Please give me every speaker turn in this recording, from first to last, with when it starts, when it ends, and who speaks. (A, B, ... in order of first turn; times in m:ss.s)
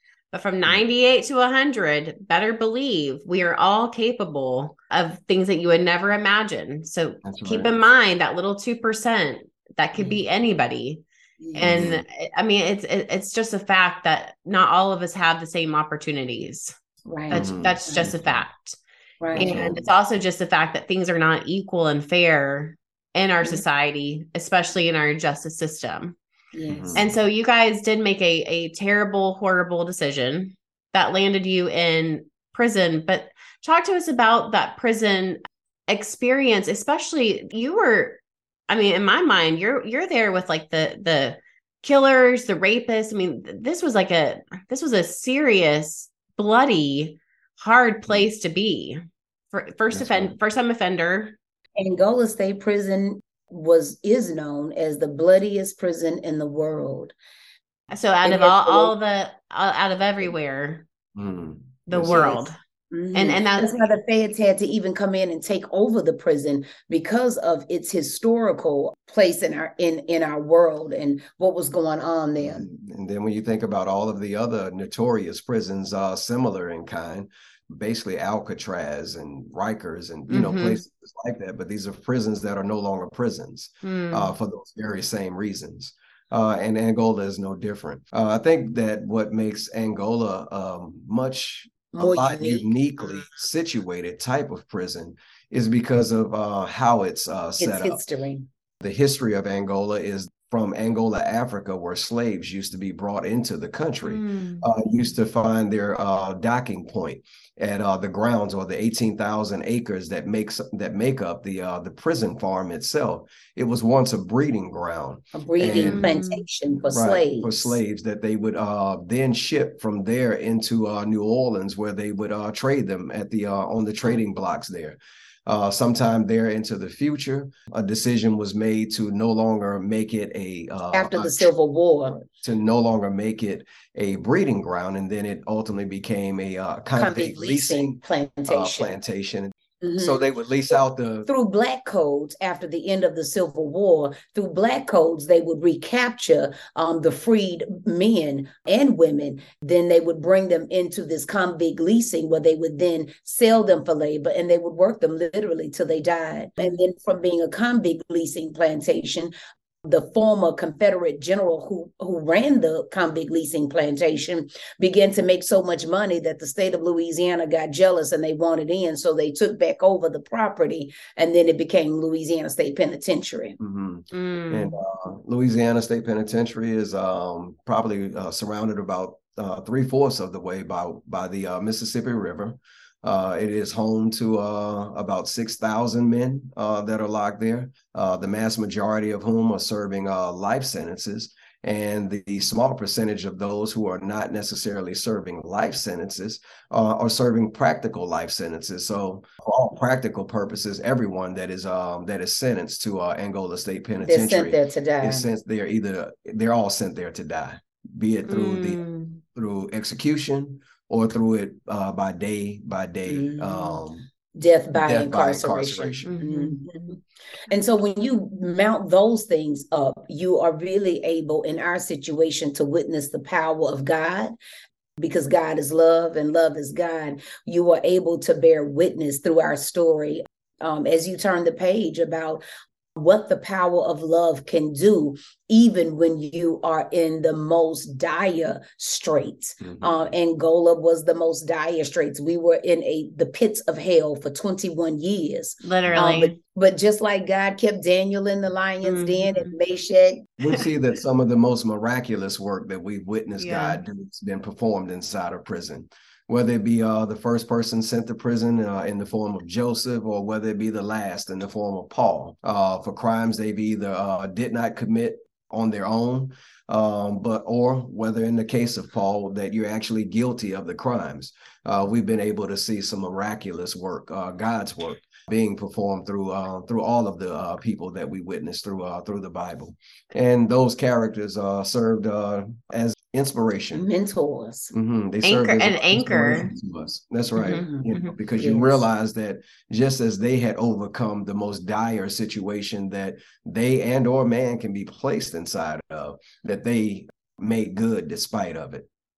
0:00.3-0:16.7 A
0:07.2-0:07.7 B
0:11.4-0:11.9 C
0:11.6-0:12.0 B
0:17.1-0:18.1 C
0:17.3-0:18.8 A
0:17.3-0:18.4 B
0:19.2-0:19.6 C
0:19.3-0:19.8 B
0:19.4-0:26.2 A
0:26.5-0:27.0 C
0:26.7-0:27.1 B
0:27.0-0:49.0 A
0:49.5-0:51.4 A
0:49.9-0:50.4 B
0:51.8-0:57.1 C
0:57.9-1:00.9 A
0:58.2-0:58.9 C
1:01.1-1:02.2 B
1:01.9-1:02.6 A
1:02.0-1:12.7 C
1:03.1-1:03.7 A
1:12.4-1:38.0 B
1:20.3-1:20.8 A
1:23.8-1:24.3 A
1:31.9-1:32.7 C
1:37.6-1:38.5 C
1:38.8-1:56.1 B
1:44.0-1:44.7 A
1:55.4-1:57.8 C
1:55.8-1:56.4 A
1:56.9-2:11.5 B
2:10.9-2:12.2 C
2:12.1-2:21.3 B
2:17.0-2:19.0 C
2:19.8-2:20.2 C
2:21.3-2:39.3 C
2:39.8-2:53.6 C
2:53.6-3:28.8 B
2:54.1-2:54.8 A
3:24.0-3:25.3 C
3:28.2-3:29.2 A
3:29.3-3:34.1 B
3:33.1-3:44.3 C
3:34.8-3:36.1 B
3:36.1-3:36.6 A
3:45.0-3:52.4 C
3:53.0-4:10.3 C
3:59.6-4:00.1 B
4:05.6-4:06.4 A
4:08.8-4:09.5 A
4:10.4-4:43.9 B
4:13.4-4:13.8 A
4:43.7-4:44.7 C
4:44.7-4:58.9 B
4:45.2-4:46.5 A
4:47.4-4:48.1 A
4:47.4-4:48.8 C